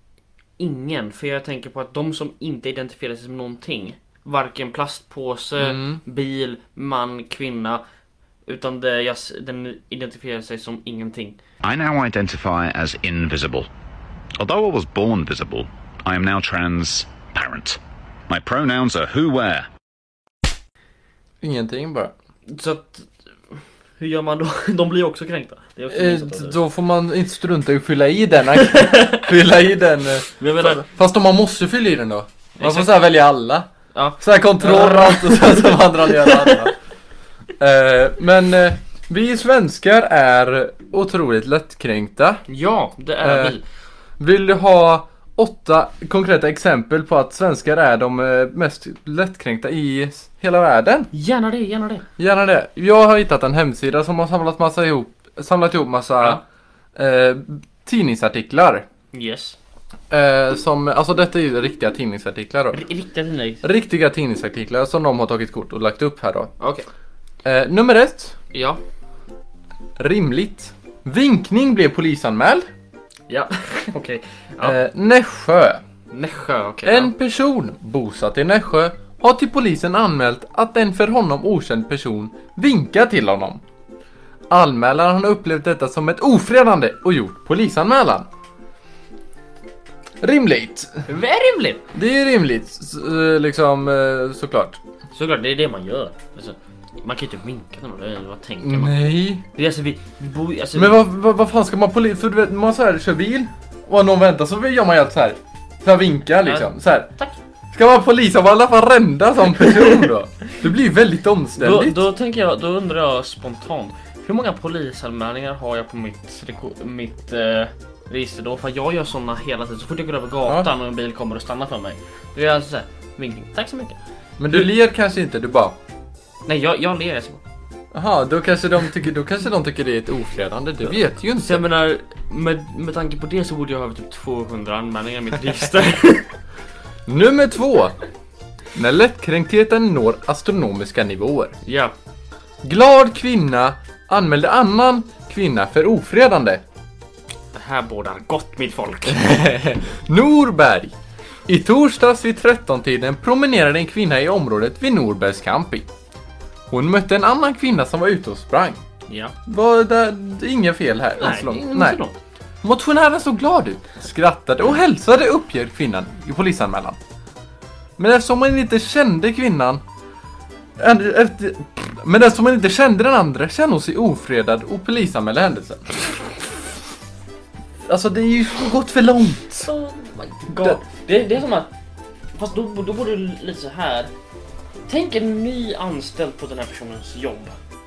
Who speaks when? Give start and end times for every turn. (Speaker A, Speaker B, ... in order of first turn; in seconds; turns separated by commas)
Speaker A: 0.6-7.8, Speaker B: 5.6-6.0, Speaker A: 8.5-11.4, Speaker C: 11.6-13.7, Speaker C: 14.4-19.7, Speaker B: 21.4-22.1, Speaker A: 22.5-23.1, Speaker A: 24.0-26.6, Speaker B: 25.9-33.7, Speaker A: 28.6-29.3, Speaker A: 30.4-30.8, Speaker A: 32.6-33.0, Speaker A: 33.9-36.7, Speaker B: 34.2-36.7, Speaker B: 37.6-42.4, Speaker A: 42.5-43.6, Speaker B: 43.2-43.6, Speaker B: 44.2-51.1, Speaker A: 51.1-52.1, Speaker B: 52.2-56.4, Speaker B: 57.0-58.9, Speaker A: 59.1-59.6, Speaker B: 60.1-62.8, Speaker A: 62.7-63.6, Speaker B: 63.6-66.5, Speaker A: 66.6-66.9, Speaker B: 67.4-68.4, Speaker A: 68.5-68.8, Speaker B: 70.0-72.7, Speaker A: 73.3-74.8, Speaker B: 74.6-75.8, Speaker A: 76.1-77.1, Speaker B: 76.8-83.6, Speaker B: 84.5-88.3, Speaker B: 90.2-91.1, Speaker A: 91.1-91.8, Speaker B: 91.9-94.8, Speaker A: 95.1-99.0, Speaker B: 98.6-99.4, Speaker A: 99.5-101.0, Speaker B: 100.8-107.1, Speaker A: 106.4-107.4, Speaker B: 107.7-112.0, Speaker A: 111.6-124.0, Speaker B: 120.5-120.7, Speaker B: 124.4-125.8, Speaker A: 126.5-127.4, Speaker B: 127.9-131.6, Speaker A: 131.4-136.3, Speaker B: 137.1-138.0, Speaker B: 138.8-141.6, Speaker A: 141.7-141.9, Speaker B: 142.6-146.6, Speaker A: 147.5-149.2, Speaker B: 149.1-150.9, Speaker B: 151.5-155.9, Speaker B: 156.7-158.8, Speaker A: 159.1-159.3, Speaker B: 159.5-162.0, Speaker A: 161.2-162.2, Speaker B: 162.6-167.0, Speaker B: 168.0-169.8, Speaker B: 170.8-175.8, Speaker B: 177.9-179.7, Speaker A: 179.7-181.7, Speaker B: 180.5-180.8, Speaker A: 182.4-184.1, Speaker A: 184.9-187.5